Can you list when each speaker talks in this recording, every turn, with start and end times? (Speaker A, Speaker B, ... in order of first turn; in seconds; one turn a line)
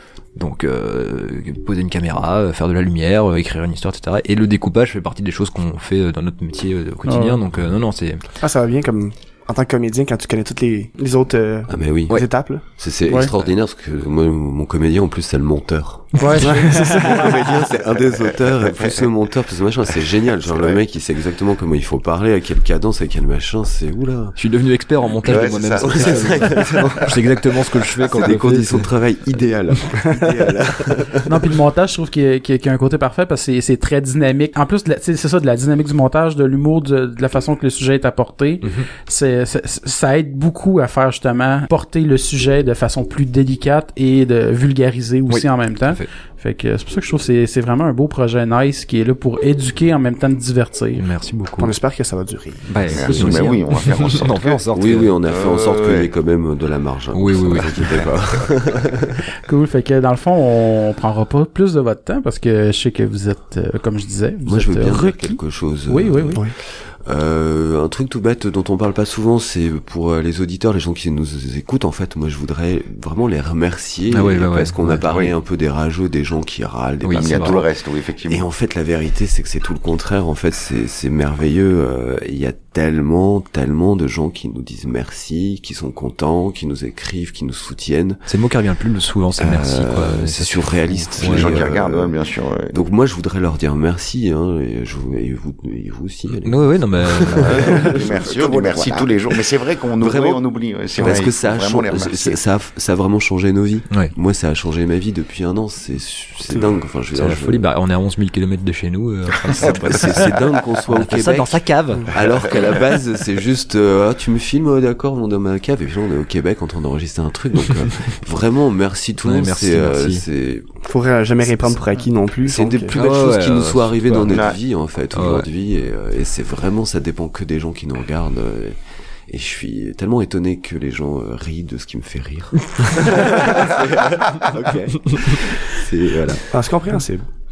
Speaker A: 0.3-8.2
Speaker B: 7.0-7.4
Speaker C: 8.4-12.6
Speaker D: 11.7-24.4
Speaker B: 13.1-13.3
Speaker B: 16.2-17.2
Speaker C: 16.4-17.4
Speaker A: 24.4-28.9
Speaker E: 25.2-27.1
Speaker D: 25.3-27.2
Speaker E: 28.0-28.3
Speaker D: 28.1-31.5
Speaker B: 31.2-51.0
Speaker A: 38.6-38.9
Speaker A: 45.3-46.0
Speaker A: 51.0-51.7
Speaker C: 51.6-52.7
Speaker A: 52.7-55.1
Speaker E: 52.9-54.6
Speaker D: 54.7-59.2
Speaker E: 55.3-56.1
Speaker A: 57.1-57.9
Speaker E: 57.7-58.5
Speaker B: 59.4-66.4
Speaker D: 64.5-77.7
Speaker A: 74.1-75.0
Speaker A: 77.0-77.6
Speaker E: 77.2-78.5
Speaker D: 78.3-88.2
Speaker A: 88.3-91.6
Speaker D: 89.4-92.1
Speaker E: 91.2-92.8
Speaker D: 92.7-99.4
Speaker A: 96.4-98.0
Speaker E: 97.4-102.4
Speaker D: 100.0-100.4
Speaker D: 101.0-107.7
Speaker A: 107.1-112.2
Speaker E: 109.5-110.3
Speaker D: 109.6-120.7
Speaker A: 119.2-120.2
Speaker C: 120.8-123.0
Speaker D: 122.4-128.8
Speaker A: 122.9-124.5
Speaker E: 124.3-124.5
Speaker A: 125.1-125.5
Speaker D: 129.3-136.5
Speaker C: 133.0-133.6
Speaker C: 134.5-134.9
Speaker A: 135.1-135.4
Speaker C: 136.5-137.3